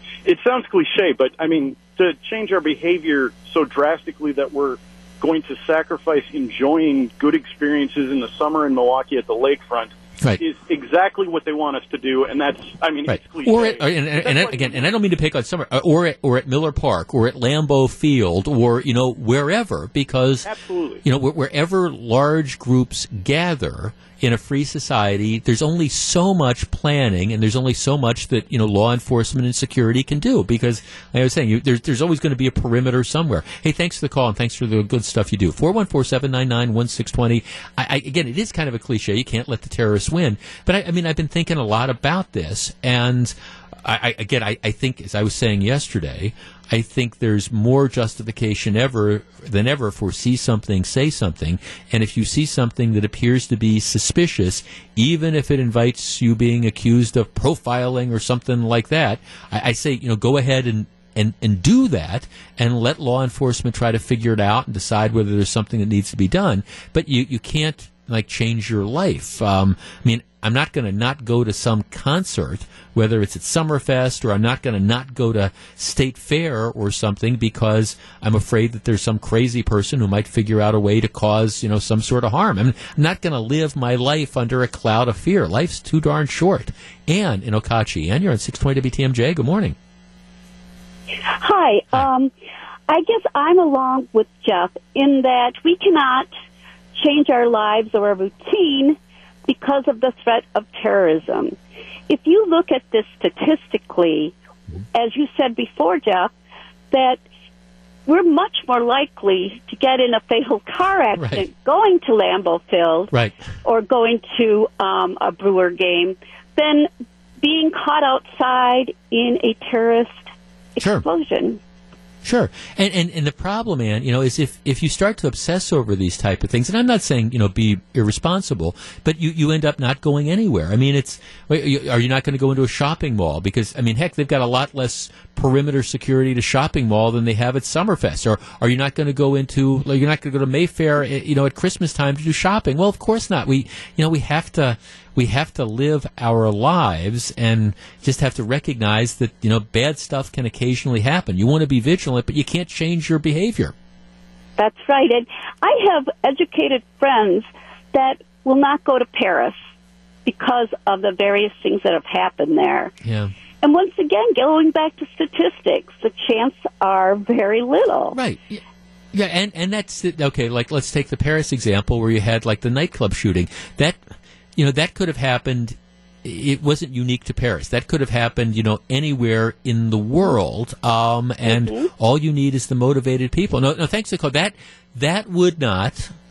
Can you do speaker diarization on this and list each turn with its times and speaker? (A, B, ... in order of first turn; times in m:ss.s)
0:00.2-0:15.0 A
0:13.1-0:20.5 B
0:20.4-0:21.0 A
0:21.0-1:29.8 B
1:31.3-1:32.3 C
1:32.9-1:36.3 C
1:37.0-1:41.6 C
1:42.1-1:44.3 C
1:44.9-1:46.3 C
1:46.9-1:47.2 C
1:48.1-1:53.1 C
1:51.2-1:51.5 B
1:53.1-1:53.4 B
1:53.6-1:56.9 C
1:57.4-2:00.2 C
2:00.8-2:01.6 C
2:00.8-2:01.0 B
2:02.2-2:33.7 B
2:34.6-2:39.6 C
2:40.3-2:42.9 C
2:43.0-2:43.3 B
2:43.6-2:48.2 C
2:48.1-2:48.6 B
2:49.1-2:54.0 B
2:54.6-3:06.1 B
3:01.5-3:01.9 C